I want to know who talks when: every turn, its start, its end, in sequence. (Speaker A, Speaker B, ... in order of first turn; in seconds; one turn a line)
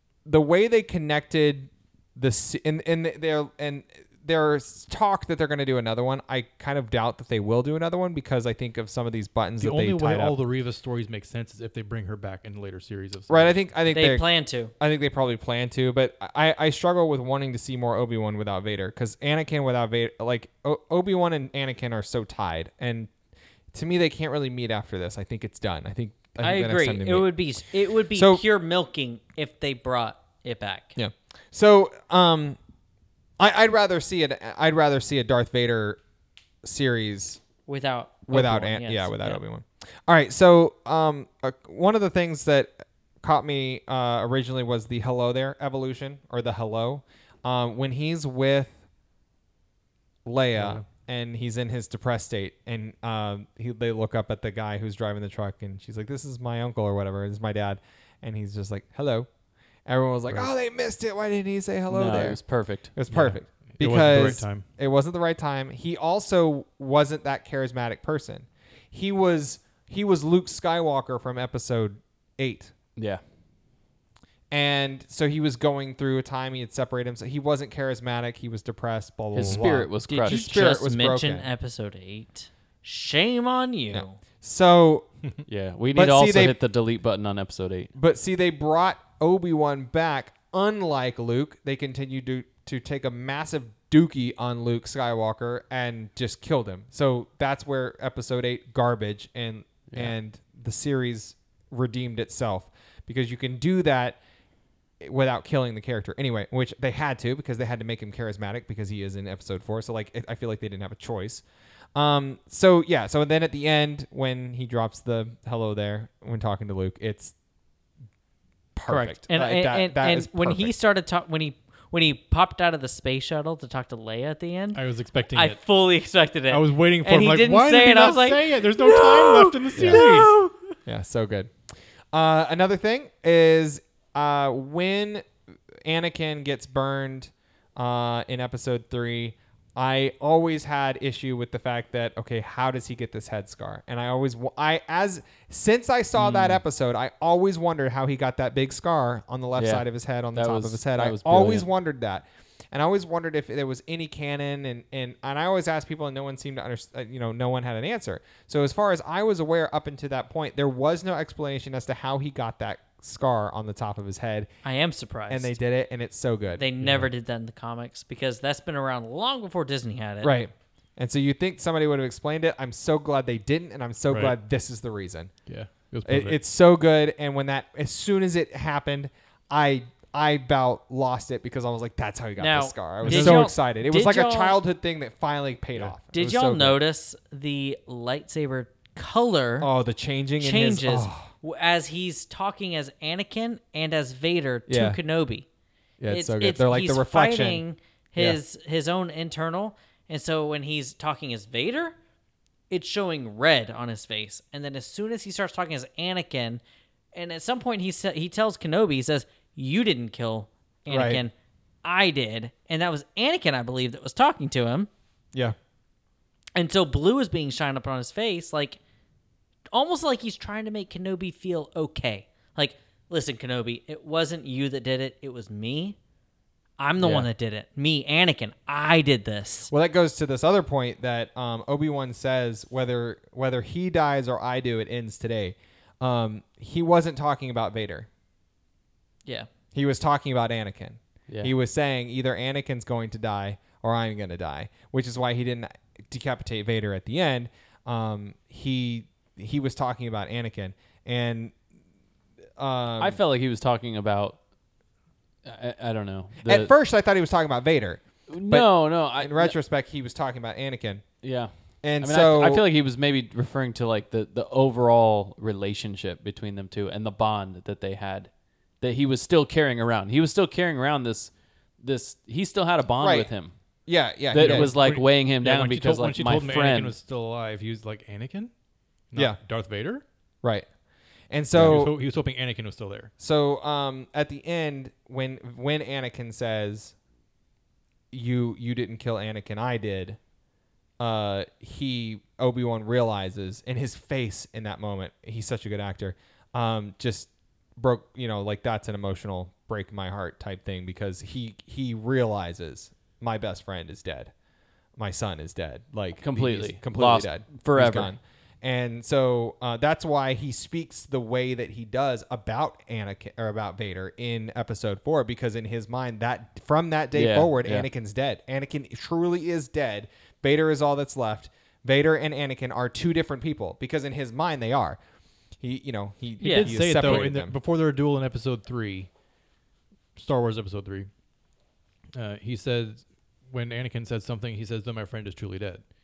Speaker A: 0.2-10.4
Speaker B: 9.6-13.6
Speaker A: 13.3-14.3
Speaker C: 13.9-14.7
Speaker A: 14.8-23.1
Speaker A: 23.7-27.4
Speaker C: 26.4-31.0
Speaker A: 28.1-28.4
Speaker A: 31.0-32.6
Speaker A: 33.4-36.0
Speaker A: 36.6-37.4
Speaker C: 37.7-39.4
Speaker A: 38.3-48.8
Speaker A: 50.2-59.3
Speaker B: 50.5-50.9
Speaker A: 59.9-72.7
Speaker D: 61.9-62.9
Speaker B: 63.1-64.7
Speaker D: 73.0-73.2
Speaker A: 74.5-81.5
Speaker D: 79.3-80.5
Speaker B: 79.4-79.7
Speaker C: 80.1-84.2
Speaker A: 83.9-85.1
Speaker D: 85.5-87.9
Speaker A: 85.9-86.6
Speaker A: 87.9-104.2
Speaker A: 105.0-111.4
Speaker A: 112.0-117.3
Speaker A: 118.8-120.7
Speaker C: 118.9-124.8
Speaker B: 124.7-125.6
Speaker C: 125.3-130.7
Speaker B: 126.5-130.3
Speaker A: 129.8-130.0
Speaker A: 130.9-164.5
Speaker D: 146.2-146.6
Speaker D: 149.6-151.7
Speaker C: 164.6-165.6
Speaker A: 165.3-166.7
Speaker C: 166.6-170.4
Speaker B: 166.8-167.1
Speaker A: 170.2-175.3
Speaker B: 174.1-174.3
Speaker B: 175.5-176.4
Speaker A: 176.1-186.8
Speaker C: 182.4-184.6
Speaker B: 183.0-183.5
Speaker C: 186.1-189.7
Speaker A: 189.6-191.3
Speaker C: 190.4-195.5
Speaker A: 194.7-195.0
Speaker A: 196.0-197.6
Speaker C: 196.1-202.0
Speaker C: 202.7-206.6
Speaker C: 207.1-211.3
Speaker A: 210.9-211.2
Speaker C: 211.8-214.9
Speaker C: 216.6-218.8
Speaker C: 219.7-226.0
Speaker C: 226.8-229.7
Speaker A: 227.0-227.3
Speaker A: 229.7-238.1
Speaker A: 239.7-251.6
Speaker A: 252.6-253.2
Speaker D: 253.0-254.4
Speaker D: 255.4-256.7
Speaker A: 256.4-261.1
Speaker D: 258.3-259.6
Speaker D: 261.2-268.3
Speaker A: 261.8-262.7
Speaker D: 268.8-273.5
Speaker A: 273.0-273.3
Speaker A: 273.9-274.7
Speaker D: 274.3-276.9
Speaker B: 274.4-278.5
Speaker B: 279.1-280.0
Speaker A: 281.3-281.9
Speaker B: 281.6-283.1
Speaker A: 283.2-286.9
Speaker A: 288.1-290.2
Speaker A: 291.0-304.3
Speaker A: 305.0-325.0
Speaker D: 306.2-308.1
Speaker D: 317.1-317.9
Speaker A: 325.6-327.6
Speaker C: 326.4-327.1
Speaker B: 326.4-329.1
Speaker B: 330.2-331.1
Speaker B: 332.1-335.9